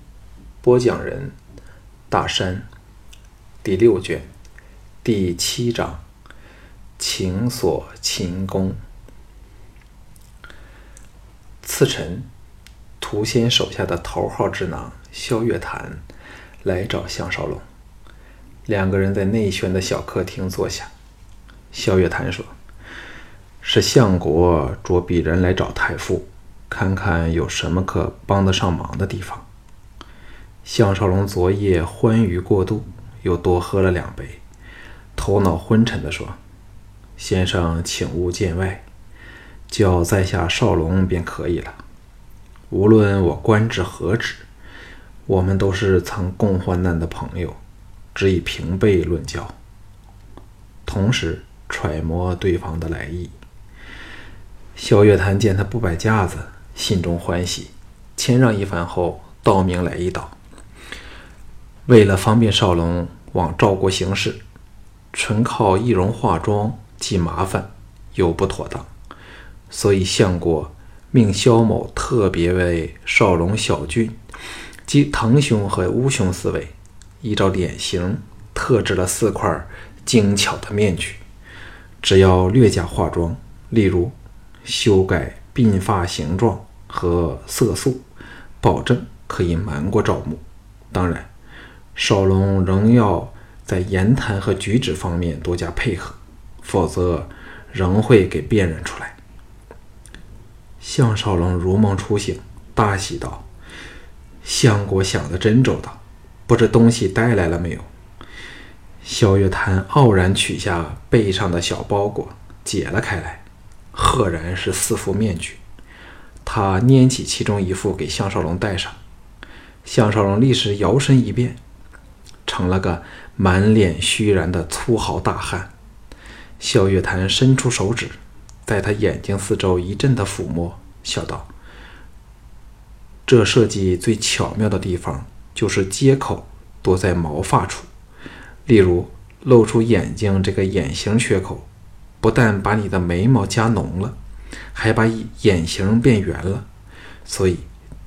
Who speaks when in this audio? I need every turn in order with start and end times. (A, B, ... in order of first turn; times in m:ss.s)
0:00.6-0:01.4 A
0:02.1-0:02.7 A
0:03.6-0:04.3 A
0:05.0-0:06.0 A
0:07.0-0:08.8 A
0:11.6-0:12.3 A
0:13.0-0:16.0 A
0:16.6-0:17.6 A
0:18.7-0:20.9 A
0:21.7-0:22.5 A
0:23.6-0:29.5 A
0:30.6-0:34.4 A
0:35.2-0:36.4 A
0:37.2-0:38.8 A
0:39.7-0:41.8 A
0:42.7-0:44.4 A
0:45.3-0:47.6 A
0:48.1-0:49.6 A
0:50.9-0:53.3 A
0:54.8-1:00.4 A
1:01.9-1:04.4 A
1:05.1-1:08.9 A
1:09.7-1:14.2 A
1:14.9-1:21.2 A
1:22.0-1:28.0 A
1:28.6-1:31.3 A
1:32.0-1:39.2 A
1:40.8-1:43.5 A
1:44.4-1:47.9 A
1:49.0-1:55.6 A
1:56.4-1:59.0 A
1:59.8-2:01.6 A
2:02.5-2:05.7 A
2:06.6-2:11.5 A
2:13.3-2:17.9 A
2:18.7-2:21.7 A
2:22.2-2:24.2 A
2:24.7-2:26.7 A
2:27.2-2:27.7 A